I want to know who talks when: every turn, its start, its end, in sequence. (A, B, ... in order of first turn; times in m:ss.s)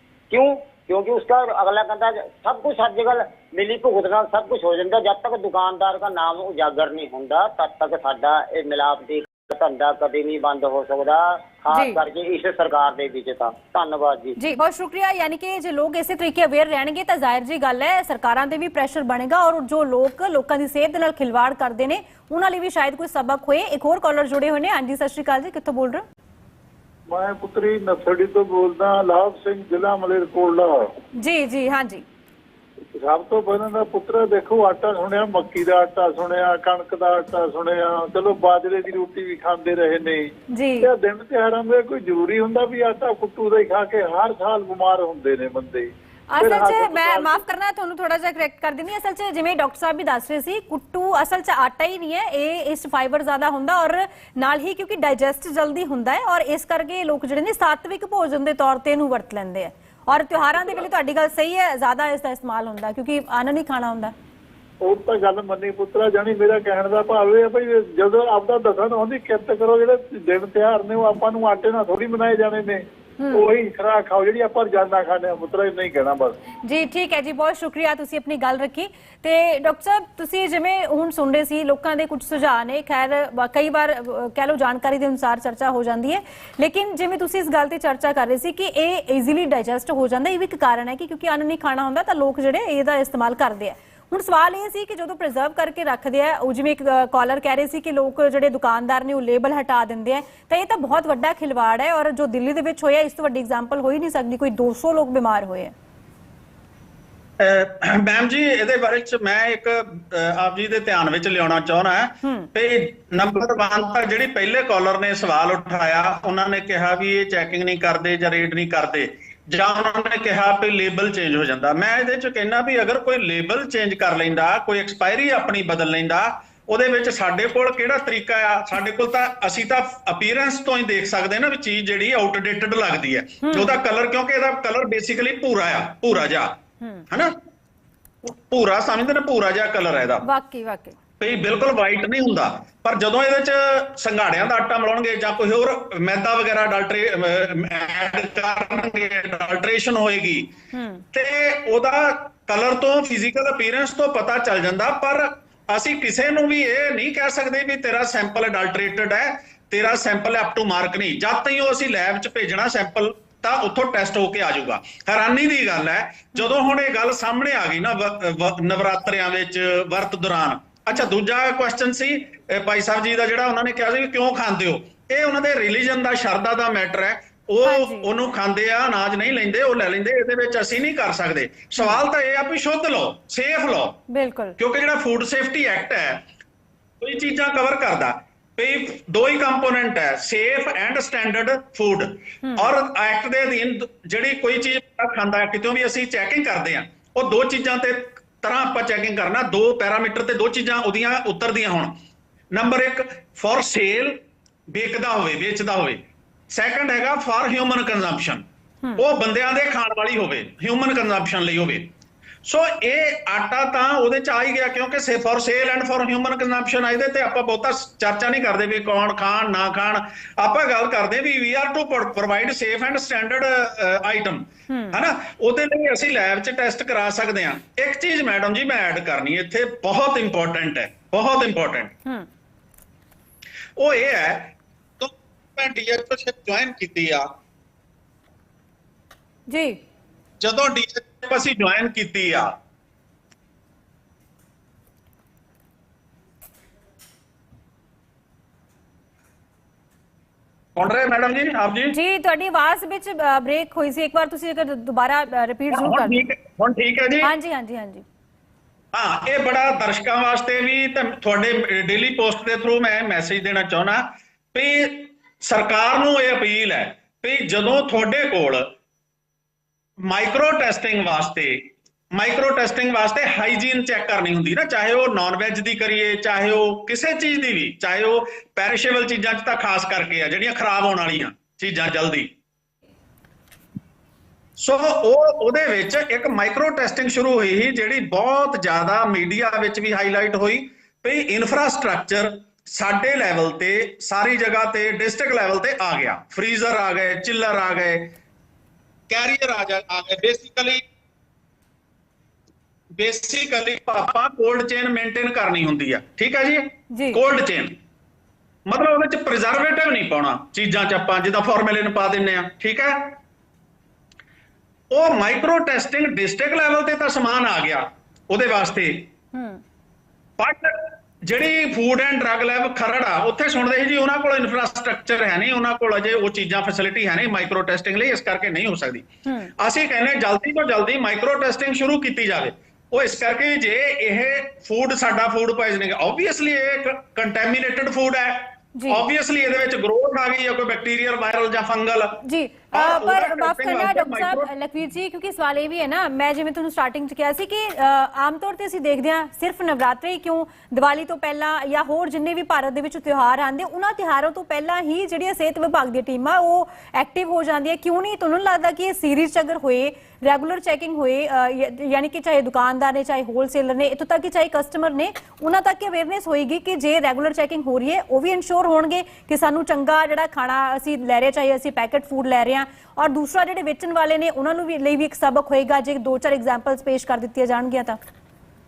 0:00.3-0:14.4 A
0:11.7-0:12.0 B
0:14.4-0:26.0 B
0:27.1-0:30.9 C
0:31.2-0:32.0 B
0:33.0-0:47.4 C
0:40.5-0:40.9 B
0:46.3-1:04.1 B
1:04.8-1:16.4 C
1:13.2-1:13.5 B
1:16.6-1:45.7 B
1:47.4-2:16.6 D
1:52.2-1:52.5 B
2:13.4-2:13.8 B
2:17.1-2:17.4 D
2:18.2-2:20.2 D
2:20.2-2:21.0 B
2:21.2-2:30.5 D
2:30.7-2:31.0 B
2:31.1-3:04.0 D
2:57.6-2:58.1 B
3:04.1-3:04.6 B
3:04.6-3:06.2 D
3:07.0-3:22.0 D
3:12.4-3:12.8 B
3:22.5-3:28.4 D
3:29.0-3:31.9 D
3:32.4-3:51.9 D
3:44.7-3:45.0 B
3:53.8-3:57.3 D
3:59.5-3:59.8 B
4:00.4-4:02.6 D
4:10.8-4:12.0 D
4:11.9-4:16.2 B
4:15.7-4:17.3 D
4:17.2-4:18.0 B
4:18.9-4:28.7 D
4:30.0-4:42.3 D
4:44.6-4:58.1 D
4:59.1-5:00.8 D
5:02.9-5:07.8 D
5:06.9-5:07.2 B
5:08.7-5:13.2 D
5:14.9-5:19.1 D
5:19.3-5:19.6 B
5:20.4-5:42.2 D
5:29.2-5:29.5 B
5:38.8-5:39.0 B
5:42.2-6:18.0 B
5:42.7-5:44.5 D